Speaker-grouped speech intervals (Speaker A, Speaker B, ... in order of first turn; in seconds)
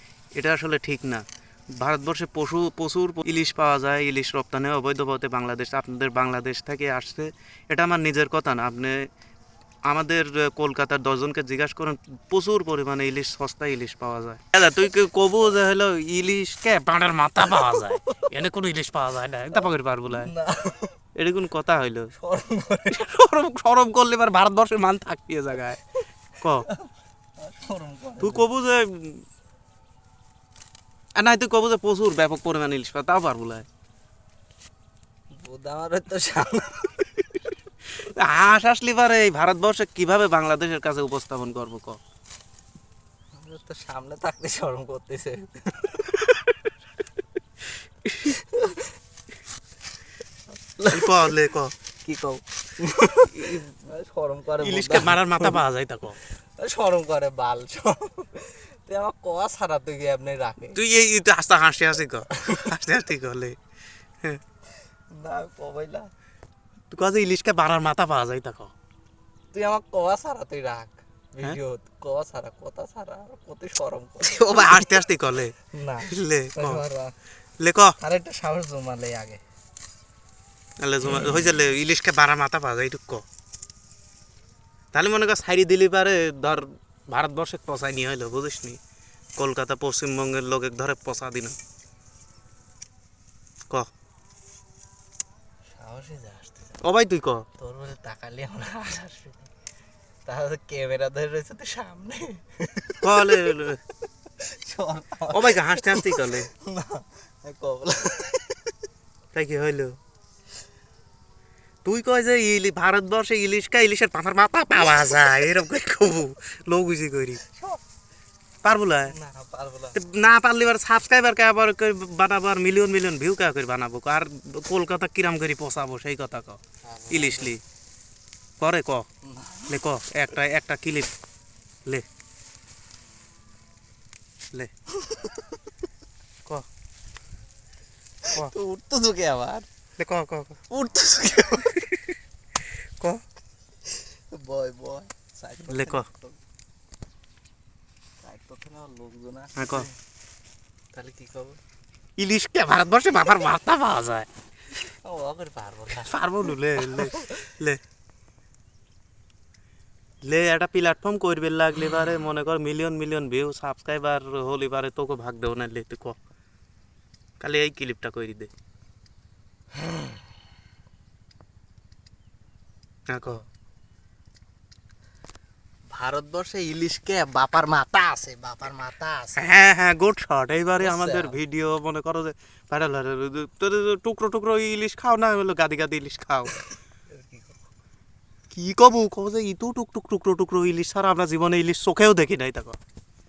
Speaker A: 0.4-1.2, 1.8-9.0, 9.9-20.3, 21.2-22.1, 22.9-25.8, 26.4-26.7, 28.2-29.2, 31.2-33.7, 37.9-42.0, 48.1-48.3, 50.9-51.7, 54.6-56.2, 60.7-63.6, 66.9-68.7, 74.2-75.5, 76.1-76.8, 77.6-78.0, 80.8-83.2, 84.9-88.8, 89.4-91.6, 96.8-97.5, 103.0-103.8, 105.3-106.5, 109.3-110.0, 111.8-117.4, 118.6-119.2, 120.0-127.6, 128.6-129.1, 129.7-131.1, 140.0-140.6, 145.7-146.1, 149.6-149.9, 152.2-154.3, 156.0-157.8, 160.2-166.2, 167.4-168.5, 173.1-173.4, 179.4-186.6, 188.5-192.8
Speaker B: 17.4-18.3, 20.1-21.0, 22.2-23.1, 26.6-28.5, 35.4-37.1, 43.4-46.1, 48.2-48.9, 50.5-51.4, 52.0-55.6, 56.6-60.8, 62.3-62.7, 65.1-66.1, 69.5-75.1, 75.7-77.1, 78.0-79.4, 95.7-96.8, 97.6-99.5, 100.3-103.6, 104.4-108.7, 117.5-117.8, 119.1-120.0, 126.9-127.6, 129.2-129.8, 135.0-135.5, 138.2-139.7, 140.7-141.8, 143.9-146.4, 148.2-149.9, 150.9-151.6, 155.0-157.4, 169.8-170.2, 175.9-179.5, 180.8-181.4, 187.1-187.6